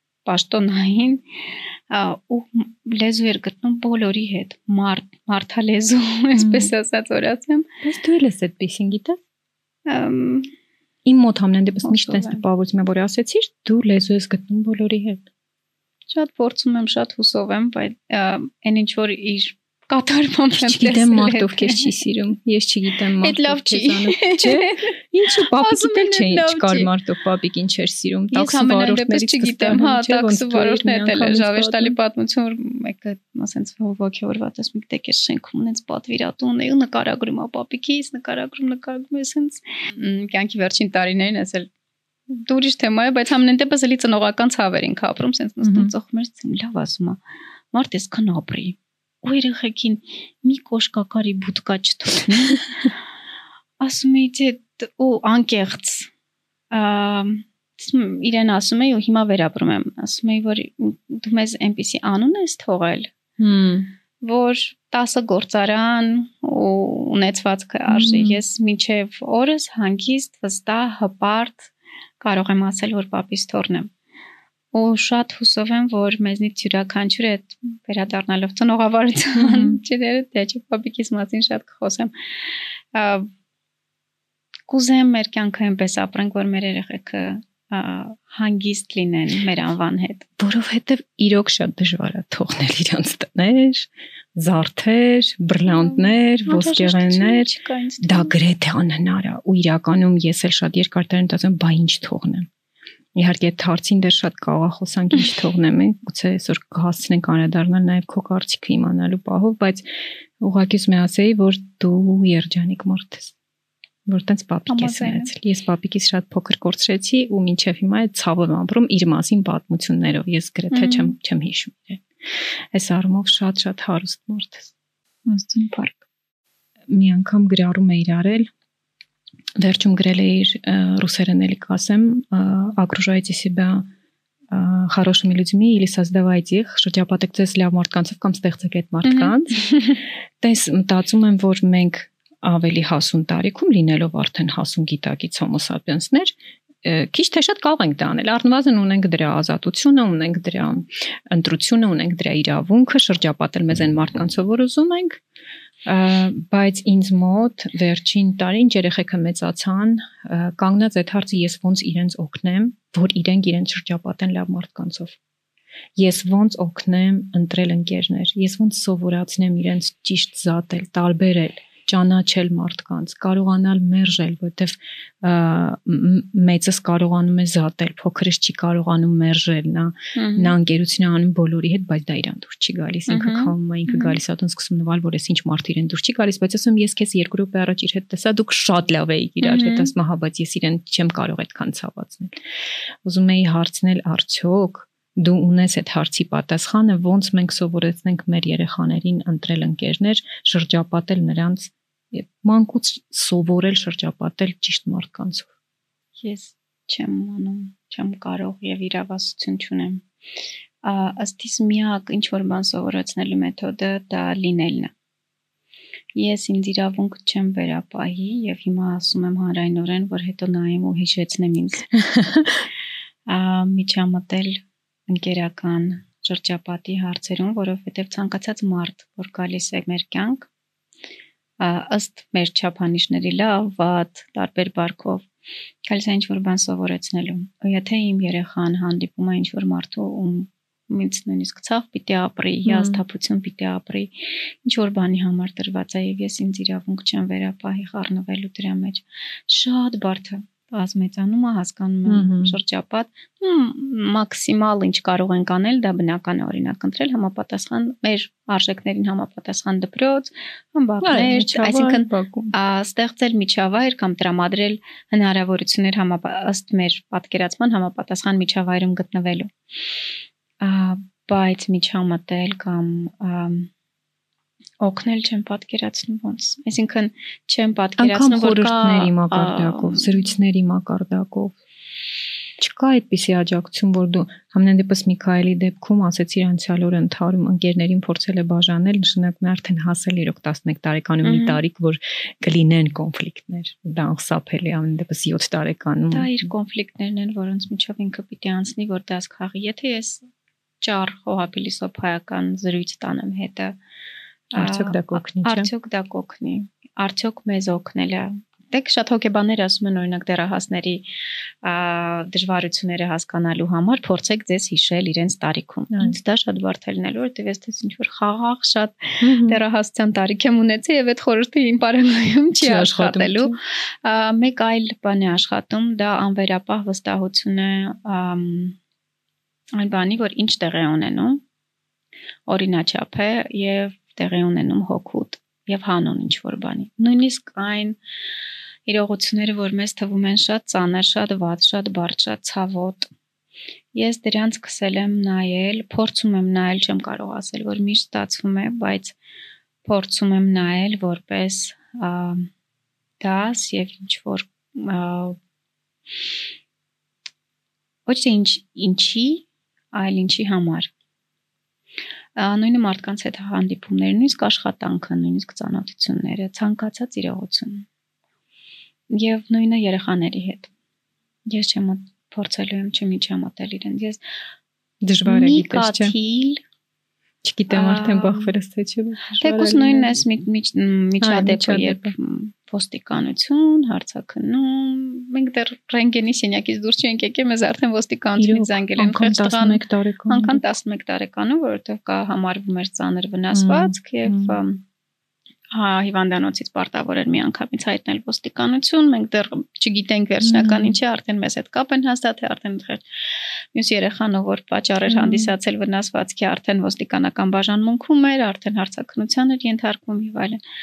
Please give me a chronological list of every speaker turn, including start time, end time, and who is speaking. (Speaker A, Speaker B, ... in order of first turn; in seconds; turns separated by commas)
Speaker A: 0.3-7.7, Speaker B: 6.4-6.7, Speaker B: 7.8-9.2, Speaker A: 9.9-10.5, Speaker B: 11.1-15.2, Speaker A: 11.8-12.4, Speaker A: 16.1-21.9, Speaker B: 20.6-32.0, Speaker A: 23.2-26.9, Speaker A: 28.3-41.7, Speaker A: 42.3-47.2, Speaker B: 45.6-45.9, Speaker A: 47.7-52.9, Speaker A: 53.8-56.1, Speaker A: 56.7-63.1, Speaker B: 63.4-63.9, Speaker A: 64.2-73.9, Speaker B: 67.9-68.4, Speaker A: 74.7-83.3, Speaker B: 79.4-79.8, Speaker A: 84.7-90.3, Speaker B: 90.4-97.5, Speaker A: 95.7-98.3, Speaker B: 98.0-102.5, Speaker B: 103.2-109.9, Speaker B: 110.4-113.3, Speaker B: 114.1-124.7, Speaker A: 114.7-115.3, Speaker A: 120.7-121.2, Speaker A: 125.3-126.0, Speaker B: 126.9-128.5, Speaker B: 129.6-133.9, Speaker B: 134.5-139.7, Speaker A: 139.0-140.0, Speaker B: 140.4-155.2, Speaker B: 155.8-165.2, Speaker B: 165.9-192.4, Speaker A: 180.2-180.6, Speaker A: 183.1-184.2, Speaker A: 189.4-189.9, Speaker B: 193.0-205.5, Speaker A: 206.2-210.0, Speaker A: 210.8-214.9, Speaker A: 216.2-221.9, Speaker B: 221.9-222.7, Speaker A: 223.3-230.5, Speaker A: 231.6-235.3, Speaker A: 235.9-269.5, Speaker B: 242.7-243.0, Speaker B: 252.1-252.6, Speaker B: 261.0-262.5, Speaker A: 270.6-273.7, Speaker A: 274.8-280.1, Speaker B: 278.0-281.6, Speaker B: 282.6-296.5, Speaker A: 291.2-291.6, Speaker A: 296.1-300.2, Speaker A: 300.8-303.8, Speaker A: 304.5-311.1, Speaker B: 304.6-305.7, Speaker A: 311.6-328.8, Speaker B: 319.2-319.6, Speaker B: 322.6-323.6, Speaker A: 329.8-331.4, Speaker A: 332.5-338.0, Speaker A: 338.9-343.1, Speaker A: 343.9-349.2, Speaker A: 349.9-352.5, Speaker A: 353.2-355.4, Speaker A: 358.1-360.9, Speaker A: 362.4-367.9, Speaker A: 369.1-370.7, Speaker A: 371.5-374.2, Speaker B: 375.0-376.1, Speaker A: 375.2-376.6, Speaker B: 377.4-380.1, Speaker A: 377.7-378.6, Speaker A: 379.4-394.8, Speaker B: 381.2-382.1, Speaker B: 388.4-390.6, Speaker B: 393.5-394.6, Speaker A: 395.7-403.0, Speaker B: 400.4-401.0, Speaker A: 403.7-410.6, Speaker B: 405.1-405.5